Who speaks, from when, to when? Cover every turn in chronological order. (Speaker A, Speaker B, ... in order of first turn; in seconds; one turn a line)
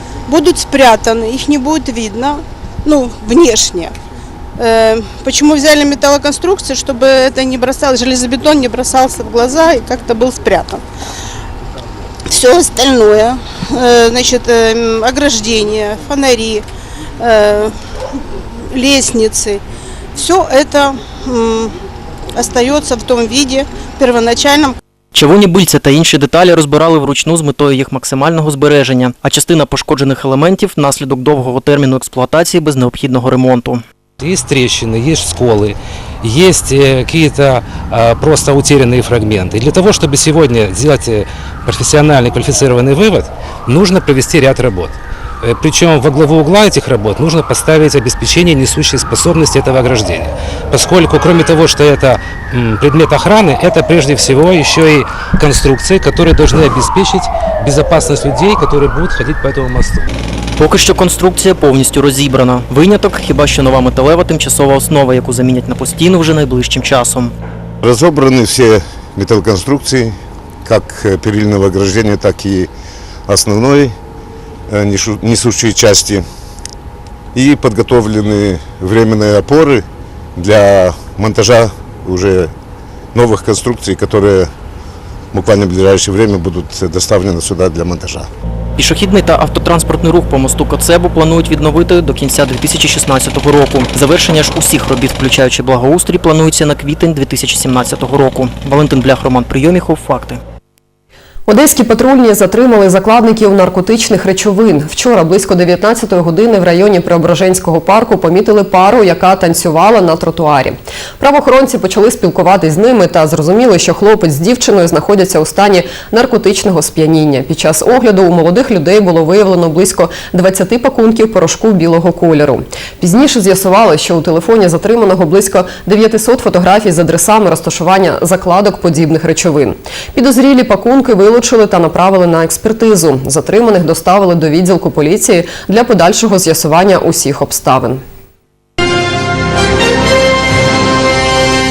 Speaker A: 0.3-3.9
Speaker A: 4.6-10.8
Speaker A: 12.3-16.6
Speaker A: 17.2-17.7
Speaker A: 18.7-19.6
Speaker A: 20.2-21.7
Speaker A: 22.3-24.8
Speaker B: 25.1-33.8
Speaker C: 34.2-60.0
Speaker B: 60.6-67.3
Speaker D: 67.8-72.7
Speaker D: 73.3-73.9
Speaker D: 74.7-76.2
Speaker D: 77.3-79.8
Speaker D: 80.4-82.5
Speaker D: 83.1-84.5
Speaker D: 85.3-88.3
Speaker B: 88.8-100.4
Speaker E: 101.5-138.0